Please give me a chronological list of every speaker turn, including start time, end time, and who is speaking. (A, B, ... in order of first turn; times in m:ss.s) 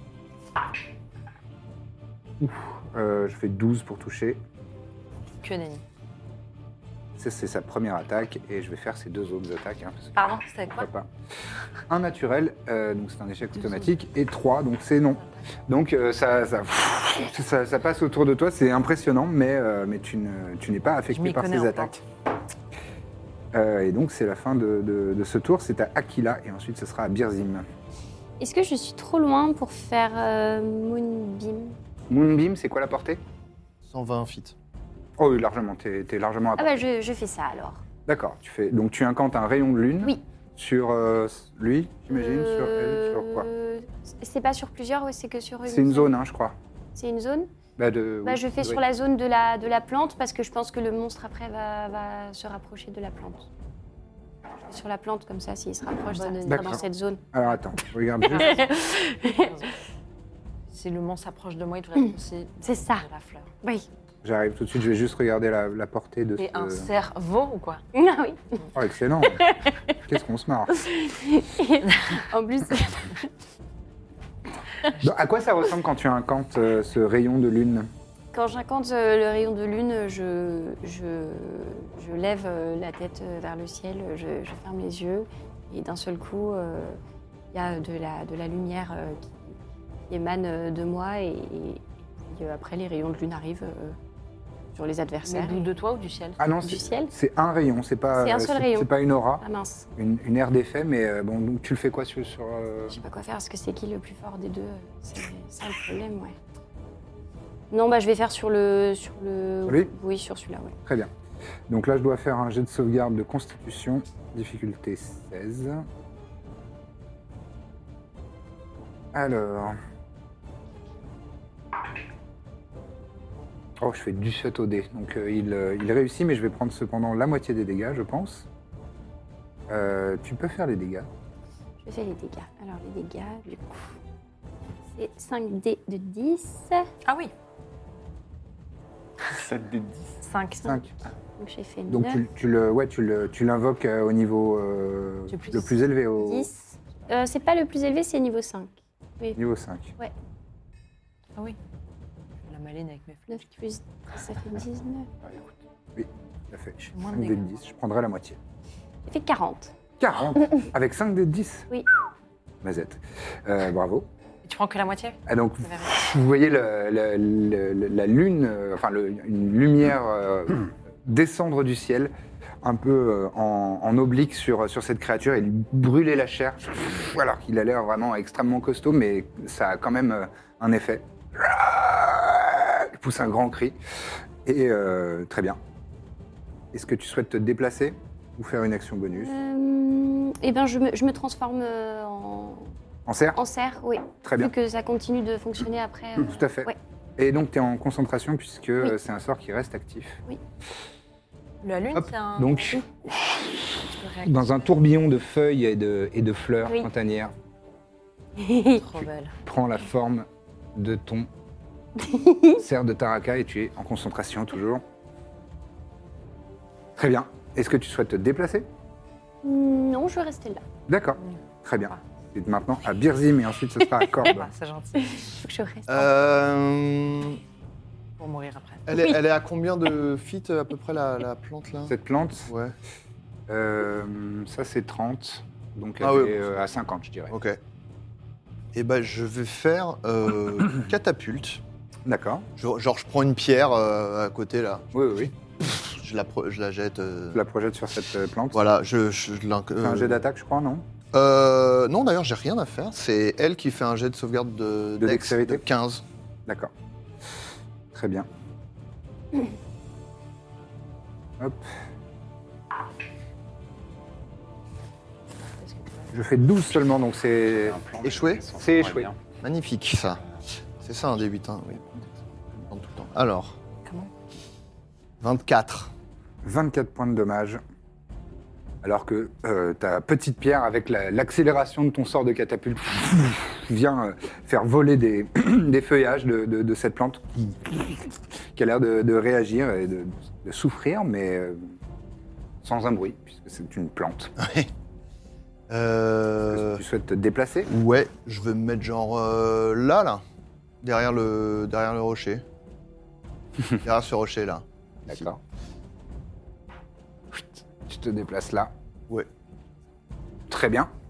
0:02.4-0:04.4 A
0:05.4-0:05.8 B
0:07.2-0:11.1 A
0:10.2-0:10.9 B
0:11.9-0:21.9 A
0:21.1-0:22.0 B
0:23.5-0:27.6 A
0:28.4-0:31.8 C
0:32.1-0:33.2 A
0:33.8-0:34.5 D
0:35.2-0:36.8 A
0:36.6-0:37.8 C
0:38.0-0:43.5 A
0:42.1-0:46.1 C
0:45.6-0:46.6 A
0:46.9-0:47.5 C
0:47.8-0:48.8 A
0:48.2-0:53.5 C
0:54.7-0:57.3 C
0:56.1-0:56.4 B
0:56.4-0:58.6 A
0:58.2-0:59.7 B
0:58.2-0:59.6 C
1:00.7-1:03.5 B
1:02.6-1:03.0 C
1:03.6-1:03.9 C
1:04.2-1:06.9 A
1:06.4-1:07.8 B
1:07.9-1:08.6 C
1:08.7-1:09.4 A
1:09.2-1:09.8 C
1:10.0-1:10.8 A
1:10.7-1:13.3 C
1:15.0-1:17.9 A
1:18.3-1:27.0 C
1:27.5-1:29.6 C
1:30.1-1:34.0 C
1:34.7-1:35.6 C
1:35.2-1:36.4 B
1:36.4-1:39.4 A
1:36.6-1:37.1 C
1:38.1-1:38.9 C
1:39.4-1:39.9 C
1:40.0-1:43.0 A
1:42.9-1:46.4 C
1:47.7-1:50.7 C
1:49.6-1:49.9 A
1:50.8-1:51.1 A
1:51.7-1:55.8 A
1:59.1-1:59.8 A
2:03.8-2:08.5 A
2:09.7-2:11.1 A
2:11.8-2:13.9 C
2:15.0-2:16.9 C
2:17.0-2:17.3 B
2:19.3-2:20.2 E
2:20.2-2:20.8 B
2:20.6-2:20.9 A
2:21.4-2:22.2 C
2:21.9-2:26.5 A
2:25.3-2:25.8 B
2:26.1-2:29.4 C
2:29.3-2:29.9 A
2:32.4-2:33.5 B
2:33.3-2:35.1 C
2:35.9-2:38.4 A
2:36.9-2:37.4 B
2:39.0-2:39.7 C
2:40.0-2:41.7 A
2:42.6-2:44.1 A
2:44.4-2:46.0 B
2:45.3-3:03.8 A
3:04.4-3:05.6 A
3:06.7-3:09.3 A
3:09.1-3:12.7 C
3:13.0-3:13.4 A
3:13.4-3:16.8 C
3:14.2-3:14.5 A
3:16.2-3:20.2 A
3:21.6-3:22.8 B
3:21.9-3:23.5 A
3:24.0-3:24.7 B
3:24.2-3:27.3 A
3:28.4-3:28.8 C
3:28.8-3:29.3 B
3:29.4-3:31.3 A
3:32.0-3:32.6 C
3:32.6-3:34.8 A
3:37.0-3:38.7 A
3:39.4-3:40.6 C
3:40.9-3:44.5 A
3:41.2-3:42.0 B
3:44.1-3:45.2 B
3:45.0-3:46.1 C
3:45.9-3:47.4 D
3:48.2-3:49.2 B
3:48.8-3:51.9 D
3:51.9-3:52.5 A
3:52.5-3:52.7 D
3:53.5-3:57.3 A
3:56.0-3:56.5 D
3:57.3-3:57.6 D
3:58.7-4:01.6 D
4:02.0-4:02.5 A
4:02.6-4:07.4 D
4:04.9-4:05.3 A
4:07.3-4:08.6 A
4:08.5-4:10.2 D
4:09.8-4:10.8 A
4:11.1-4:16.0 D
4:15.0-4:15.6 A
4:17.9-4:18.3 A
4:21.4-4:21.7 A
4:25.6-4:26.1 B
4:26.1-4:27.8 A
4:27.5-4:29.2 E
4:28.0-4:28.4 D
4:28.6-4:29.1 A
4:29.4-4:30.2 D
4:30.8-4:32.0 D
4:32.5-4:33.6 D
4:33.8-4:34.1 B
4:35.2-4:35.9 D
4:36.4-4:37.6 A
4:38.8-4:51.7 A
4:52.6-4:54.3 A
4:54.4-4:54.7 D
4:55.7-4:56.8 D
4:56.5-4:57.7 A
4:57.7-5:00.2 D
5:00.8-5:02.4 D
5:03.8-5:04.6 D
5:05.1-5:05.4 A
5:07.3-5:08.7 A
5:10.5-5:10.9 A